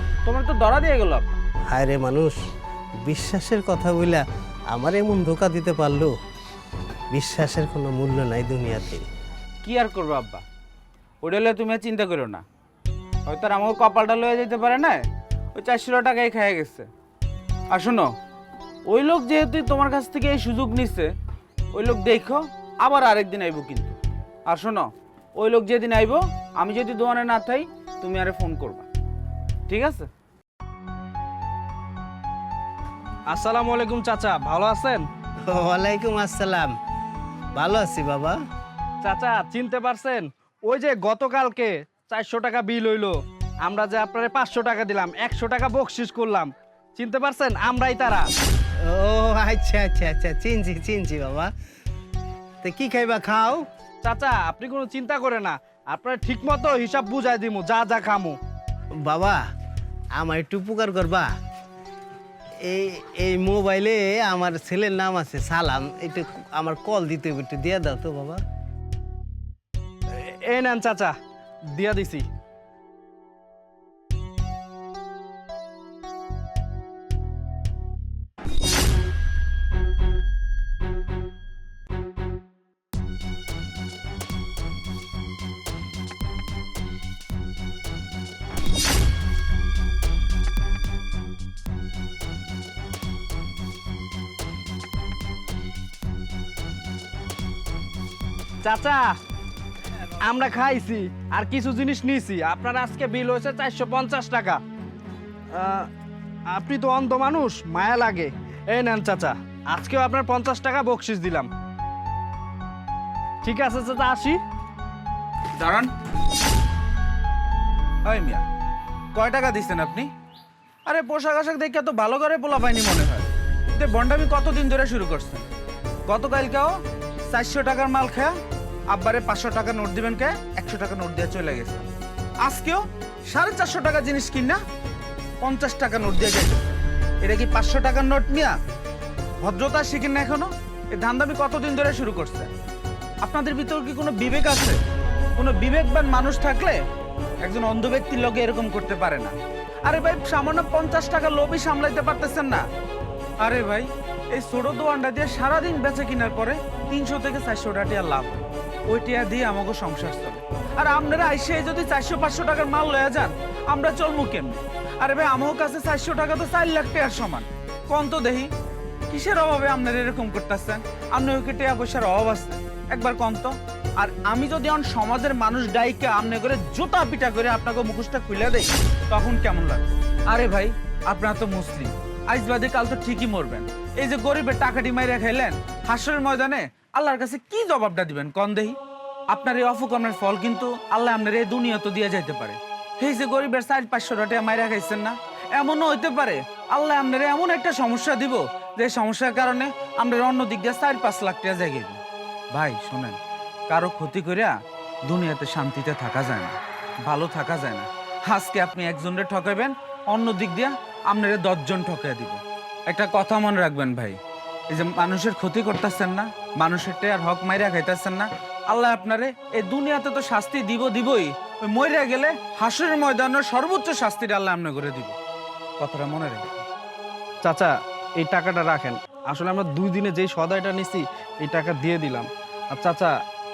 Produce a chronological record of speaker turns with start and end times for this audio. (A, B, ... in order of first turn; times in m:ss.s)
0:00.2-0:01.4 A
0:01.7-0:02.3 B
0:03.0-0:06.1 B
0:07.1-0:09.0 B
0:09.6-0:10.4 A
0:11.2-0:12.4 A
0:13.3-0:15.0 A
0:15.6-0:16.9 A
0:17.7-0:18.1 A
0:18.9-0:21.1 A
0:21.7-0:24.0 A
0:24.5-0:28.9 A
0:29.7-0:30.1 A
0:33.3-0:35.0 C
0:35.5-0:36.7 B
0:37.6-0:38.4 B
0:39.0-0:48.2 C
0:48.9-0:51.5 B
0:52.6-0:53.6 B
0:54.0-0:58.4 C
0:59.1-0:59.4 B
1:00.2-1:01.3 B
1:02.6-1:08.4 B
1:10.4-1:11.1 C
1:11.7-1:12.2 C
1:38.6-1:39.1 C
1:40.2-1:44.6 C
1:45.6-1:45.9 C
1:46.5-1:51.5 C
1:53.4-1:54.4 C
1:55.6-1:55.9 A
1:58.1-1:58.4 A
1:59.2-2:00.1 A
2:00.9-2:05.5 A
2:06.1-2:06.8 A
2:07.3-2:08.4 A
2:08.9-2:11.9 A
2:12.4-2:14.6 A
2:15.4-2:18.6 A
2:19.4-2:22.5 A
2:23.2-2:24.8 A
2:25.4-2:26.8 A
2:27.4-2:29.4 A
2:29.9-2:32.6 A
2:33.4-2:48.5 A
2:49.1-3:08.8 A
3:09.3-3:22.0 A
3:22.6-3:23.2 A
3:23.7-3:24.5 A
3:25.1-3:34.2 A
3:34.7-3:45.1 A
3:45.8-3:46.6 A
3:47.5-3:53.1 C